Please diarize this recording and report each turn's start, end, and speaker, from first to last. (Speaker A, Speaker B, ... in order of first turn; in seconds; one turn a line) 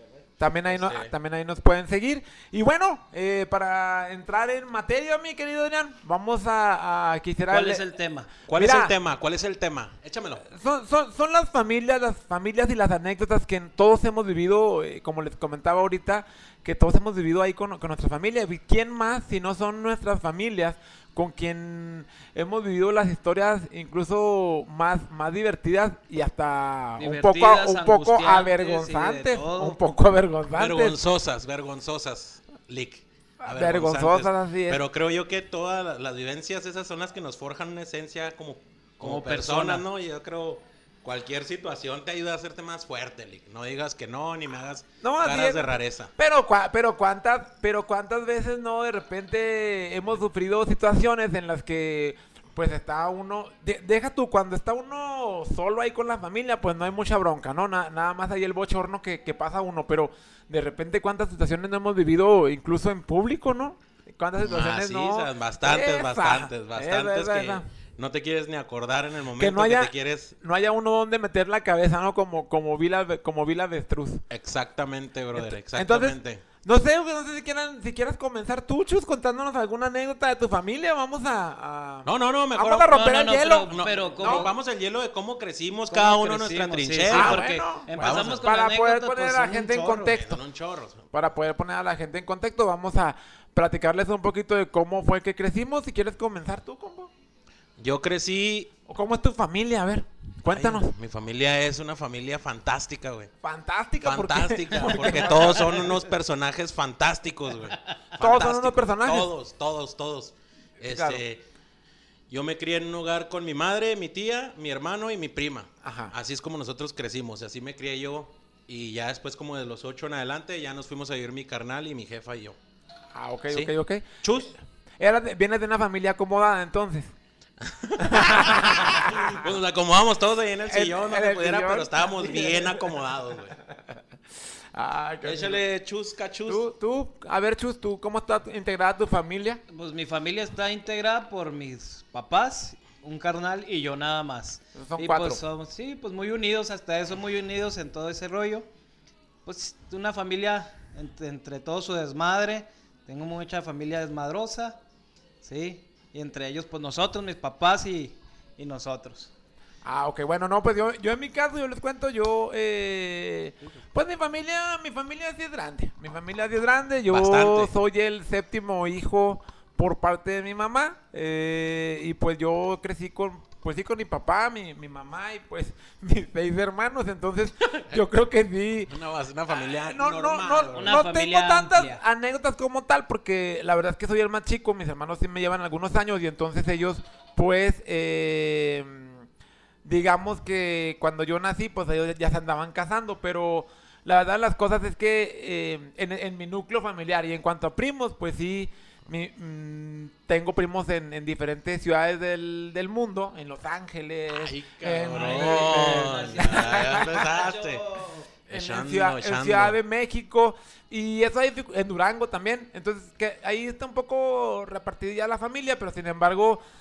Speaker A: 0.4-7.8
Speaker B: 0.7-1.1
Speaker C: 7.5-8.3
Speaker B: 8.5-10.4
Speaker A: 8.5-8.9
Speaker A: 10.5-31.0
Speaker C: 27.0-29.8
Speaker B: 30.6-46.1
Speaker A: 33.4-34.8
Speaker C: 39.0-39.8
Speaker A: 45.0-67.7
Speaker B: 64.4-70.3
Speaker A: 69.4-74.2
Speaker B: 74.3-76.4
Speaker A: 75.3-84.5
Speaker B: 82.0-88.5
Speaker C: 83.3-84.5
Speaker C: 85.9-90.1
Speaker A: 87.1-90.4
Speaker B: 90.0-91.0
Speaker A: 91.1-97.1
Speaker B: 97.8-98.7
Speaker A: 98.9-100.9
Speaker B: 100.5-103.3
Speaker A: 103.4-105.8
Speaker B: 104.0-111.4
Speaker A: 108.2-109.3
Speaker A: 110.8-111.2
Speaker B: 112.3-122.6
Speaker A: 115.8-116.1
Speaker A: 123.1-124.2
Speaker B: 123.5-124.5
Speaker A: 125.0-127.1
Speaker B: 127.6-133.6
Speaker A: 128.0-129.5
Speaker A: 130.7-132.7
Speaker A: 134.7-135.6
Speaker B: 135.2-136.6
Speaker A: 136.5-139.6
Speaker C: 139.7-148.7
Speaker A: 144.8-145.4
Speaker C: 149.4-154.8
Speaker C: 155.4-159.3
Speaker A: 159.8-178.9
Speaker B: 167.1-167.7
Speaker B: 177.6-178.0
Speaker B: 178.9-181.0
Speaker A: 179.6-189.2
Speaker C: 180.7-182.0
Speaker A: 189.8-207.3
Speaker B: 204.3-207.8
Speaker C: 205.1-208.3
Speaker A: 208.5-216.6
Speaker B: 208.5-209.8